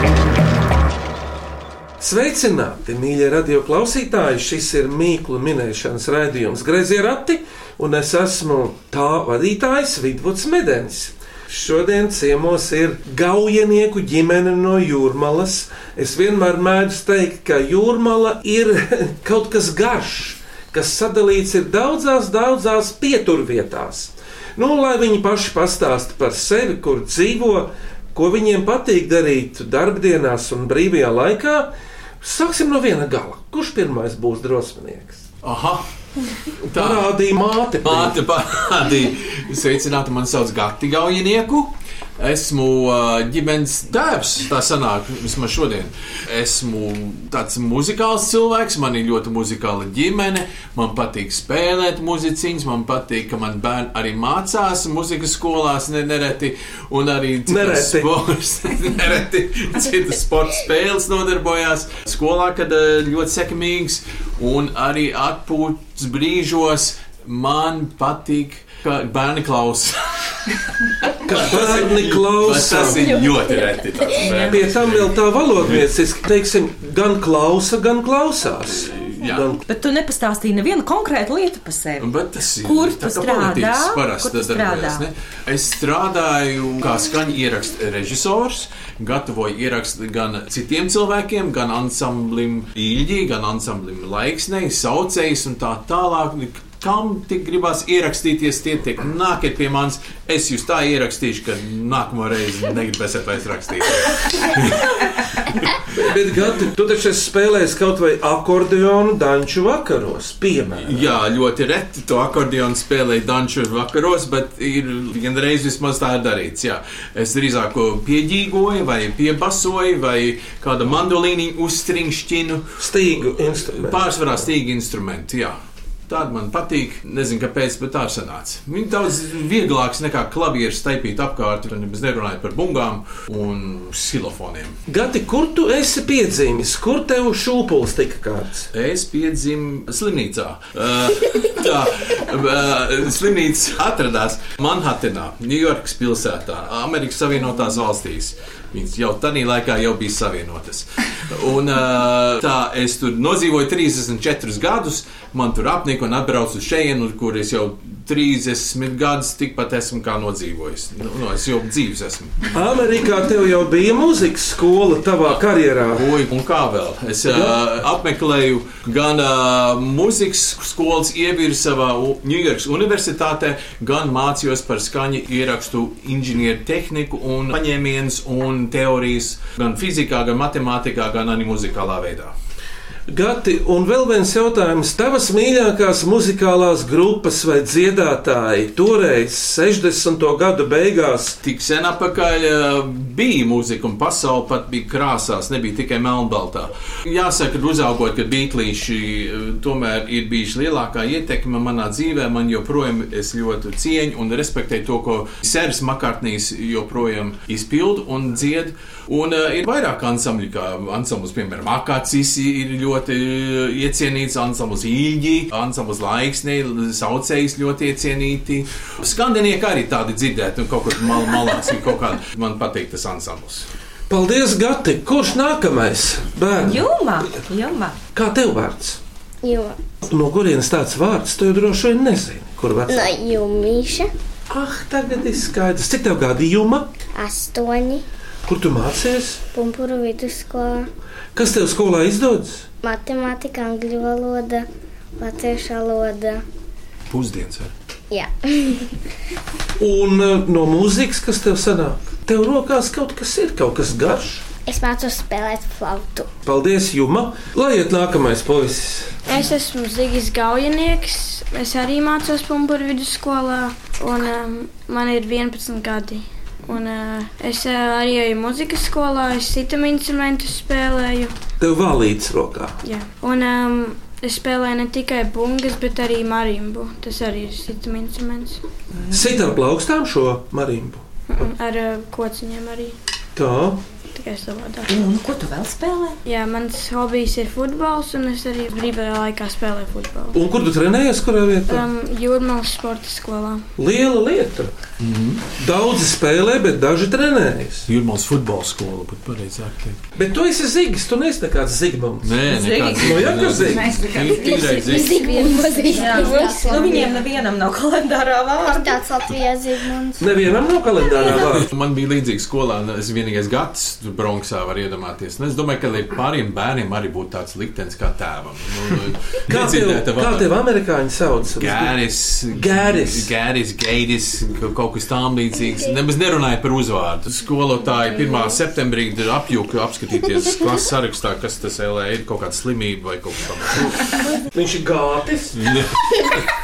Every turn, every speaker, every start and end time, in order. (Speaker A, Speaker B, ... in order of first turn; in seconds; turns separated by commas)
Speaker A: 2.0-35.2, Speaker B: 35.4-35.8, Speaker B: 36.7-37.1, Speaker A: 36.8-38.1, Speaker B: 37.8-70.3, Speaker A: 57.5-58.1, Speaker B: 71.1-75.8, Speaker A: 71.2-73.2, Speaker C: 73.2-74.2, Speaker A: 74.4-79.6, Speaker B: 78.9-79.6, Speaker D: 79.7-82.1, Speaker B: 82.0-105.4, Speaker D: 82.6-85.0, Speaker A: 105.9-111.1, Speaker B: 110.8-125.5, Speaker A: 122.8-124.5, Speaker B: 126.1-134.8, Speaker A: 134.9-138.7, Speaker B: 138.7-162.5, Speaker A: 162.5-166.1, Speaker B: 165.9-182.3, Speaker A: 167.3-167.6, Speaker A: 183.1-191.4, Speaker B: 191.4-223.7, Speaker A: 224.1-226.8, Speaker D: 226.6-228.0, Speaker A: 228.1-229.0, Speaker C: 229.4-229.8, Speaker A: 230.0-233.1, Speaker C: 232.9-234.1, Speaker A: 234.5-236.9, Speaker C: 237.1-238.0, Speaker A: 238.5-239.4, Speaker C: 239.5-240.9, Speaker A: 241.3-242.7, Speaker C: 242.8-246.4, Speaker B: 247.1-247.7, Speaker C: 248.1-248.9, Speaker A: 249.8-254.4, Speaker C: 254.7-256.3, Speaker A: 256.4-259.1, Speaker E: 259.3-271.3, Speaker A: 271.6-272.8, Speaker E: 272.8-278.6, Speaker D: 278.9-279.2, Speaker A: 279.1-281.5, Speaker E: 281.3-282.9, Speaker A: 283.4-283.8, Speaker E: 284.1-284.9, Speaker D: 284.9-286.2, Speaker E: 286.2-290.4, Speaker A: 290.3-291.8, Speaker E: 291.7-293.6, Speaker A: 293.8-294.7, Speaker B: 295.0-295.4, Speaker A: 295.6-297.9, Speaker B: 297.9-300.0, Speaker A: 300.1-302.4, Speaker B: 302.2-305.3, Speaker D: 302.5-303.2, Speaker A: 302.9-304.1, Speaker C: 304.3-307.2, Speaker E: 305.3-307.0, Speaker D: 305.9-309.1, Speaker C: 308.6-310.2, Speaker A: 310.2-311.7, Speaker B: 311.3-320.5, Speaker A: 319.5-322.0, Speaker B: 321.6-333.9, Speaker A: 322.5-323.3, Speaker A: 333.8-335.8, Speaker B: 335.6-336.5